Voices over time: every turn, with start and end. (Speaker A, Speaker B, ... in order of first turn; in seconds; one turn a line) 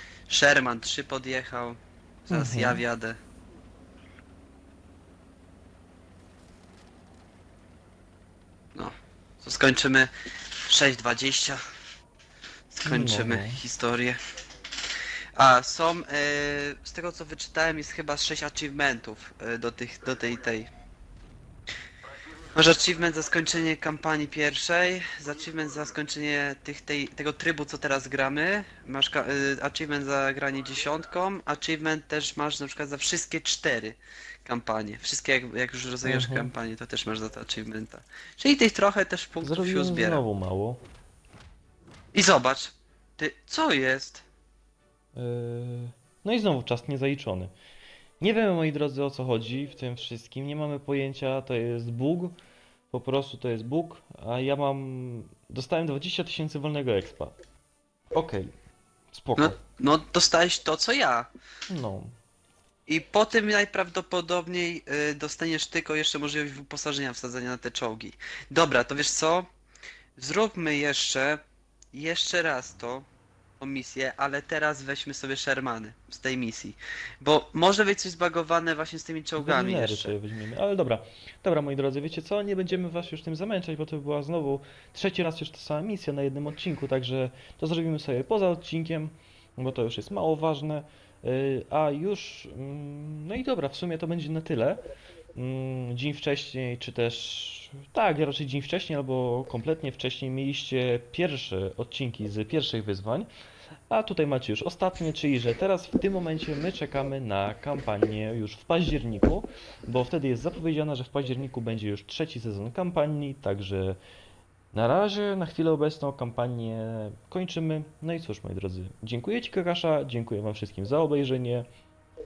Speaker A: 0.3-3.2
Speaker B: 2.3-2.8
Speaker A: 8.8-10.1
Speaker A: 10.6-11.6
Speaker A: 12.7-14.2
Speaker B: 12.8-13.6
Speaker A: 15.4-20.7
Speaker A: 22.5-40.2
Speaker B: 36.0-36.5
Speaker B: 39.4-40.8
Speaker A: 42.1-44.2
Speaker B: 45.1-47.5
Speaker B: 48.2-52.4
Speaker B: 52.9-57.4
Speaker B: 58.1-58.5
Speaker B: 59.1-59.6
Speaker A: 59.4-61.3
Speaker B: 61.7-62.1
Speaker A: 62.9-69.5
Speaker A: 70.2-71.4
Speaker A: 71.9-73.1
Speaker A: 73.6-80.1
Speaker B: 79.4-94.8
Speaker B: 95.3-103.3
Speaker B: 103.9-114.0
Speaker B: 114.7-121.7